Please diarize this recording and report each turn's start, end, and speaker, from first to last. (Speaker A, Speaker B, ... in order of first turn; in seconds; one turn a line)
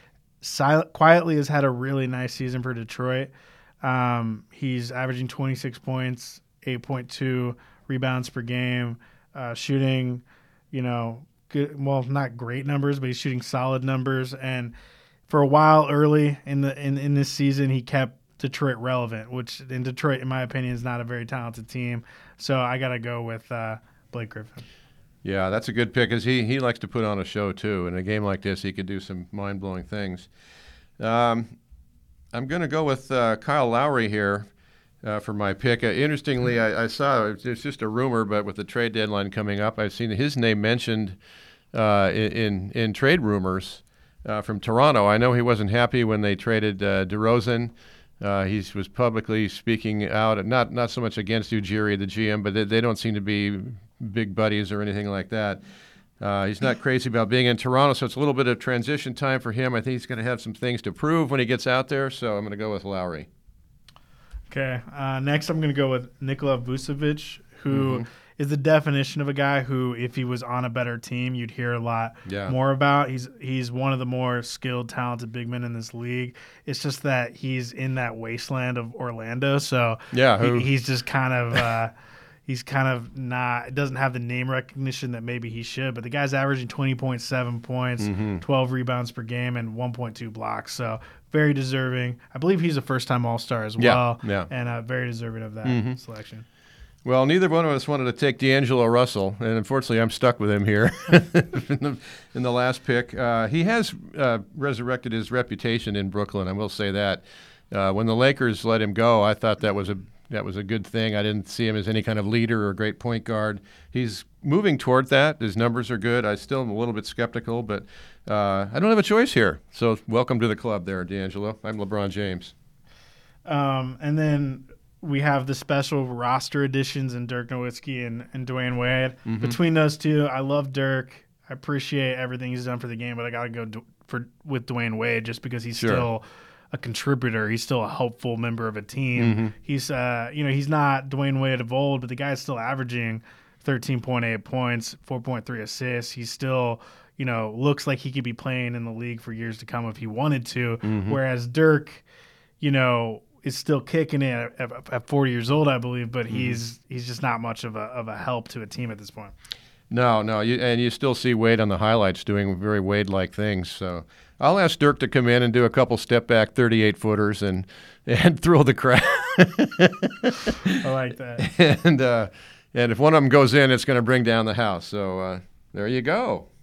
Speaker A: 0.4-14.7
Speaker A: 15.3-24.6
Speaker B: 25.2-30.3
Speaker B: 31.0-31.5
Speaker B: 32.3-34.5
Speaker B: 35.0-41.2
Speaker B: 41.7-55.6
Speaker B: 56.2-63.3
Speaker A: 64.5-81.9
Speaker B: 67.7-68.0
Speaker B: 72.2-72.5
Speaker B: 80.1-80.7
Speaker A: 82.5-96.4
Speaker B: 88.0-88.4
Speaker B: 93.8-94.5
Speaker B: 95.6-96.0
Speaker B: 97.0-122.5
Speaker A: 123.4-152.0
Speaker B: 129.2-129.5
Speaker B: 135.8-136.1
Speaker B: 139.2-139.5
Speaker B: 150.8-151.2
Speaker A: 152.6-159.3
Speaker B: 156.3-156.6
Speaker B: 159.9-170.7
Speaker A: 170.8-171.4
Speaker B: 171.4-176.4